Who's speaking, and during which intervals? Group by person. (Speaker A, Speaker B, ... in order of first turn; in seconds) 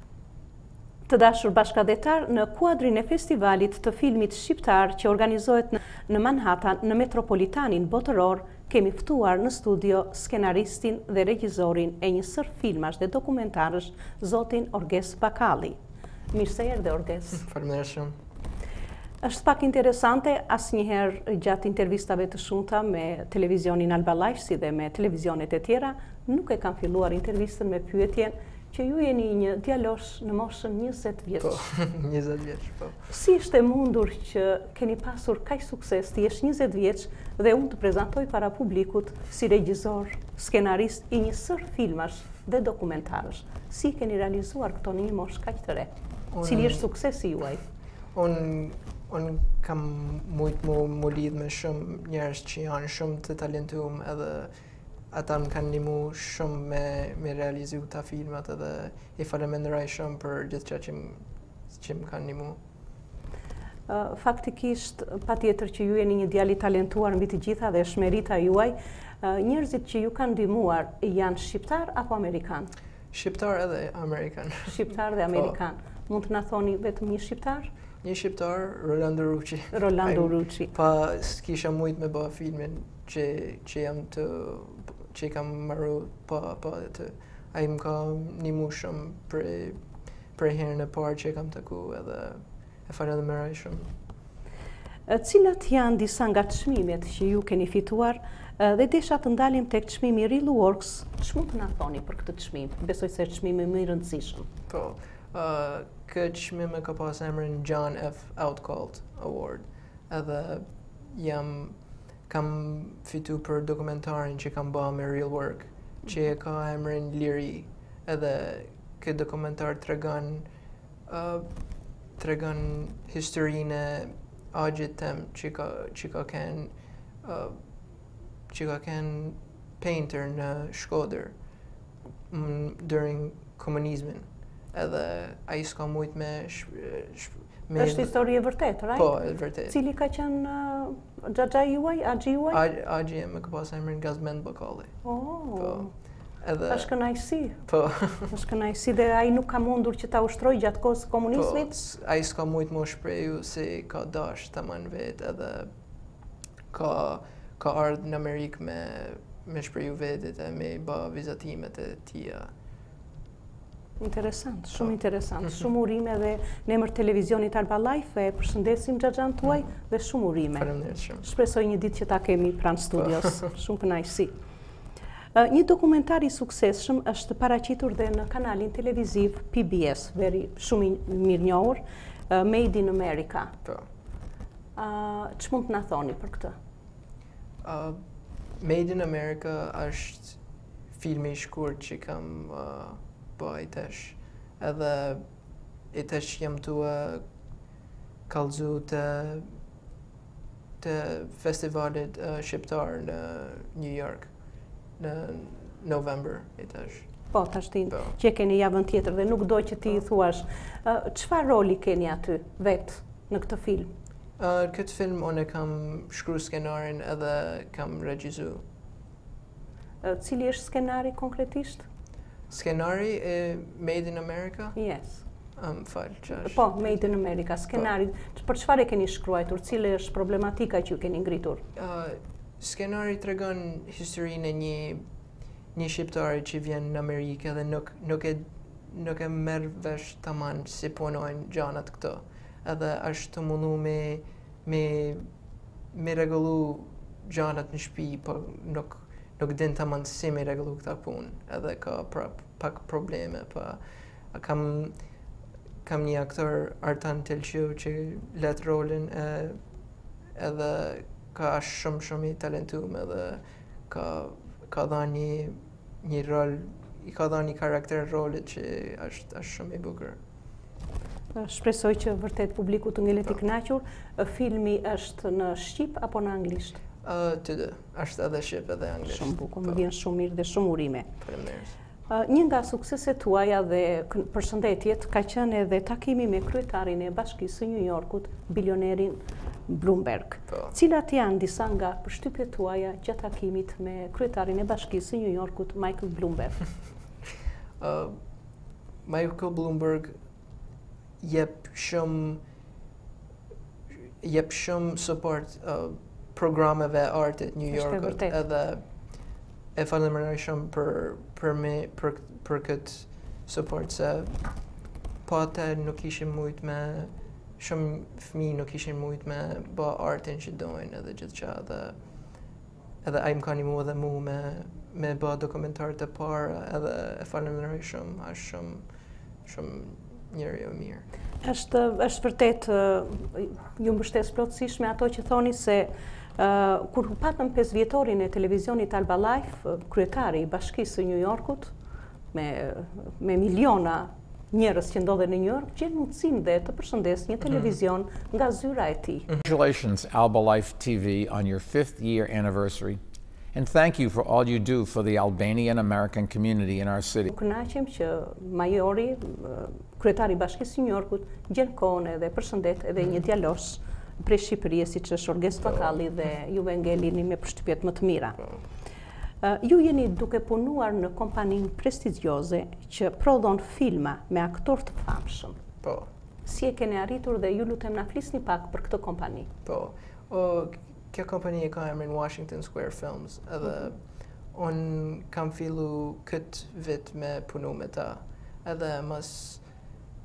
Speaker A: 1.1-15.8, 16.3-17.5, 19.2-31.7, 33.1-45.9, 46.4-47.6, 63.9-72.7, 74.7-77.7, 79.7-80.7, 95.1-104.5, 137.8-142.6, 145.0-145.9, 146.7-147.6, 148.3-151.7, 164.0-174.3, 175.3-183.6, 184.8-186.6, 207.3-213.9, 220.0-221.9, 224.8-225.2, 226.3-231.6, 271.4-276.8, 279.1-281.1, 282.1-296.7, 307.7-308.4, 331.4-341.7, 342.3-349.3, 357.3-368.5, 369.4-375.6, 376.4-379.5
Speaker B: 17.4-18.1, 31.4-33.0, 46.3-46.9, 48.1-54.5, 55.1-62.6, 73.1-75.6, 78.0-89.8, 90.3-93.9, 104.7-120.5, 121.1-121.6, 122.2-127.6, 128.5-131.4, 132.3-139.8, 142.5-144.9, 145.6-145.9, 146.4-147.0, 147.6-148.3, 151.3-155.7, 156.7-162.5, 170.6-171.2, 187.6-188.0, 188.6-190.4, 191.0-195.2, 195.9-197.2, 198.3-199.6, 200.8-204.3, 205.0-207.3, 214.4-218.6, 222.5-224.8, 225.6-227.1, 231.8-235.0, 235.7-245.3, 245.9-253.8, 254.3-255.0, 255.8-259.6, 260.4-270.2, 277.0-279.9, 281.2-281.8, 290.5-290.8, 297.8-298.2, 299.0-300.1, 301.2-302.4, 304.2-309.1, 309.8-314.5, 315.2-321.9, 323.0-328.8, 329.4-331.1, 375.8-376.1, 379.6-389.6
Speaker C: 349.4-353.0, 353.5-357.3